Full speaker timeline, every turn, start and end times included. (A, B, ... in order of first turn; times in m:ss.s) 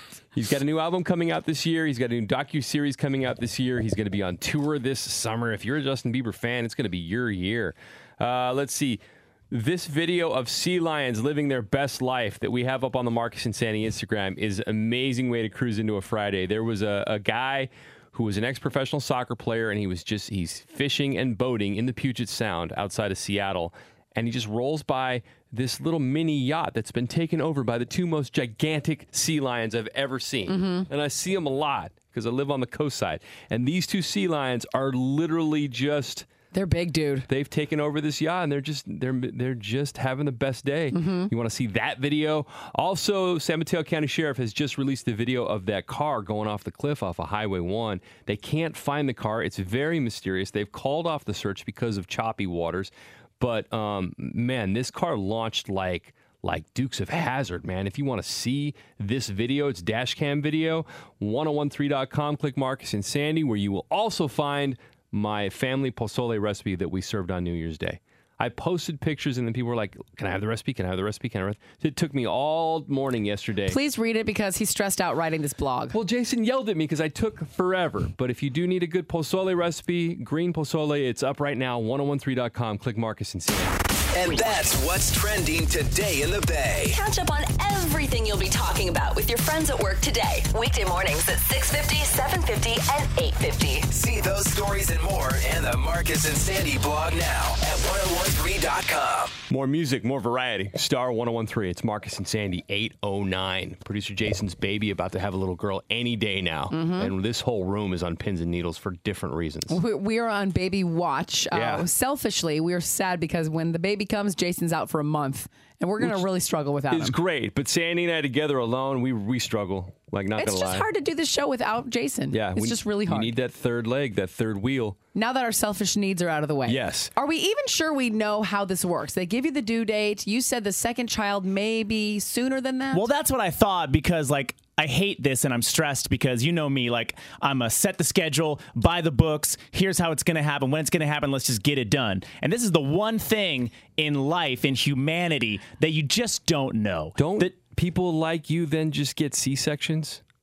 0:00.3-0:36.3 A
0:30.5-0:30.9 B
0:36.5-0:37.3 B
0:37.3-1:13.8 A
0:40.9-0:41.3 B
1:13.7-1:16.0 B
1:15.9-1:23.8 A
1:24.1-1:27.0 C
1:26.9-1:33.9 D
1:33.9-1:39.4 C
1:39.5-1:49.8 A
1:46.7-1:47.1 B
1:49.7-1:57.2 B
1:51.5-1:51.9 A
1:56.9-2:00.9 A
2:00.4-2:03.3 B
2:02.3-2:05.0 A
2:05.2-2:13.1 B
2:06.7-2:07.1 A
2:12.9-2:27.6 E
2:27.2-2:30.2 A